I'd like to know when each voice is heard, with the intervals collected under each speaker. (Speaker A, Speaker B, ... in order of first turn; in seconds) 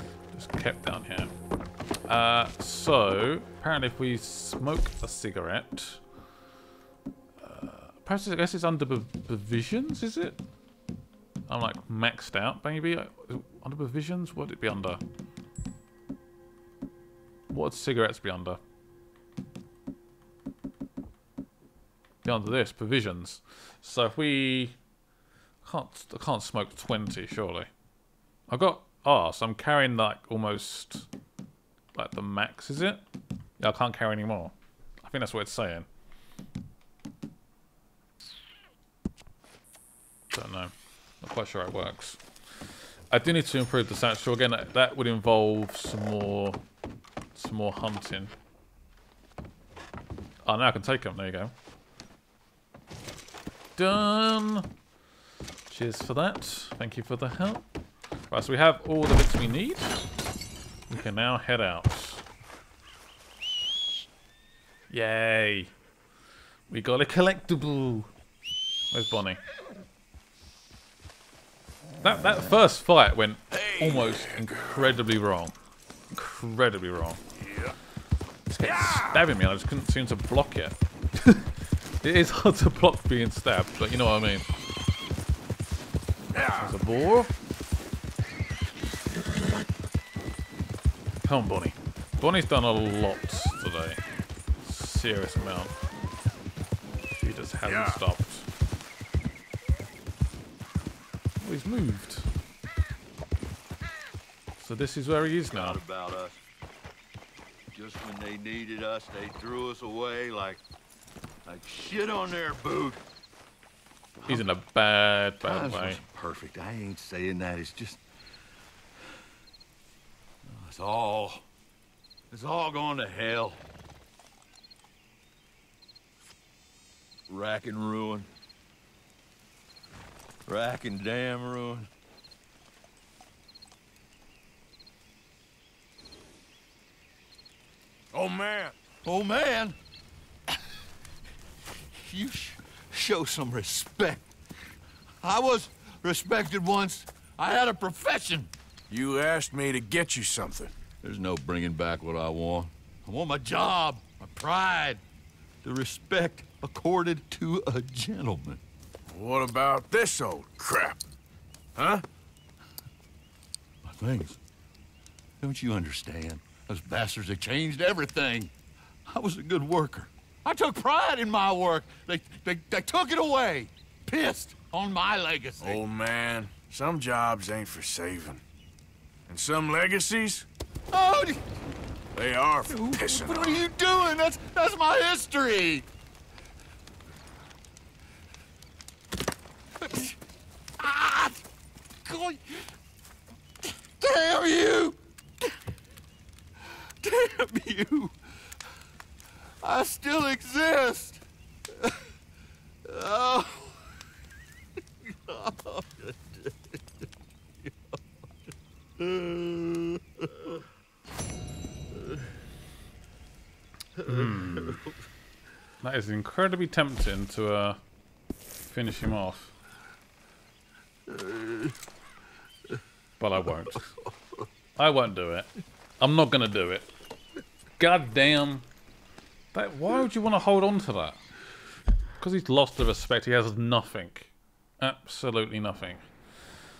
Speaker A: 0.3-1.3, 2.1-6.0, 7.4-10.4, 11.5-15.0, 17.5-18.6, 22.2-24.8, 25.6-27.7, 28.5-31.1, 31.9-33.0, 33.6-35.9, 40.3-42.2, 43.1-46.6, 47.4-48.3, 50.5-51.5, 53.8-54.7, 55.7-57.6, 58.3-60.0, 60.9-62.2, 64.9-65.7, 66.7-68.1, 68.9-69.4, 72.0-75.6, 76.1-77.2, 78.5-84.5, 86.6-87.3, 91.2-94.0, 94.6-95.7, 97.2-98.5, 101.4-102.3, 104.6-105.8, 114.2-116.0, 214.1-214.9, 215.8-217.8, 218.7-219.5, 223.2-223.9, 224.8-225.5, 226.0-226.9, 227.8-228.7, 229.5-231.2, 232.2-236.0
Speaker B: 73.5-74.9, 77.4-77.7, 78.6-79.3, 86.3-86.8, 97.6-98.0, 138.1-138.8, 148.9-150.7, 159.1-161.0, 161.8-162.0, 175.6-178.4, 179.3-180.5, 182.1-183.6
Speaker C: 105.5-106.4, 107.7-110.6, 111.5-113.0, 114.2-114.5, 115.4-118.0, 120.5-121.5, 122.3-123.6, 127.3-128.3, 130.5-131.9, 139.0-139.8, 141.9-144.3, 145.2-148.5, 151.0-155.0, 155.6-158.6, 163.8-164.4, 165.4-168.5, 169.1-175.8, 180.9-181.4, 182.7-185.9, 189.8-190.2, 190.8-191.4, 192.0-192.6, 193.7-195.0, 197.0-198.1, 199.6-201.2, 202.8-203.8, 205.0-207.1, 207.6-208.0, 209.0-210.6, 211.9-212.3, 214.0-215.0, 221.1-221.8